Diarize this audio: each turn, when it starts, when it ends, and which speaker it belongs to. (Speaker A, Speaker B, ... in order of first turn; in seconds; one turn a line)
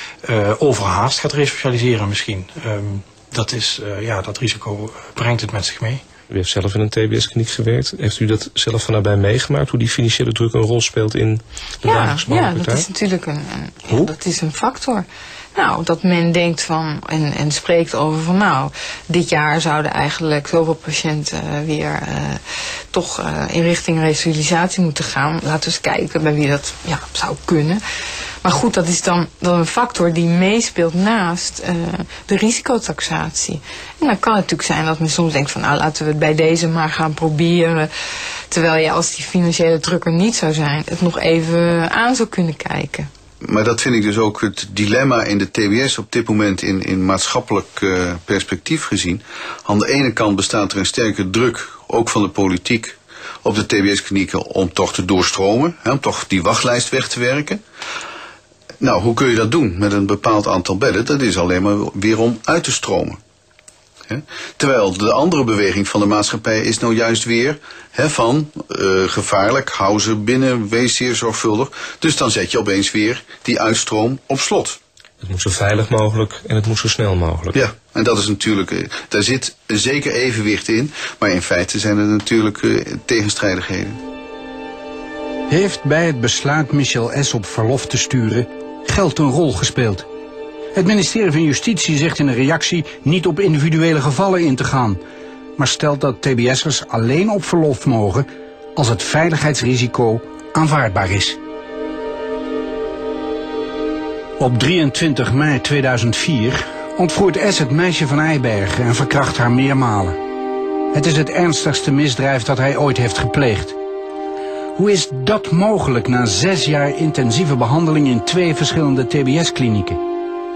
Speaker A: 0.2-6.0
Speaker B: 6.3-12.8
Speaker C: 11.8-27.8
Speaker C: 28.4-37.9
Speaker C: 38.5-43.1
Speaker D: 43.4-57.6
Speaker D: 58.8-63.2
Speaker D: 64.1-74.8
Speaker B: 75.2-77.6
Speaker D: 77.5-84.0
Speaker E: 85.5-90.1
Speaker E: 90.7-95.0
Speaker E: 95.6-101.4
Speaker E: 104.4-110.2
Speaker E: 110.9-113.8
Speaker E: 114.7-120.0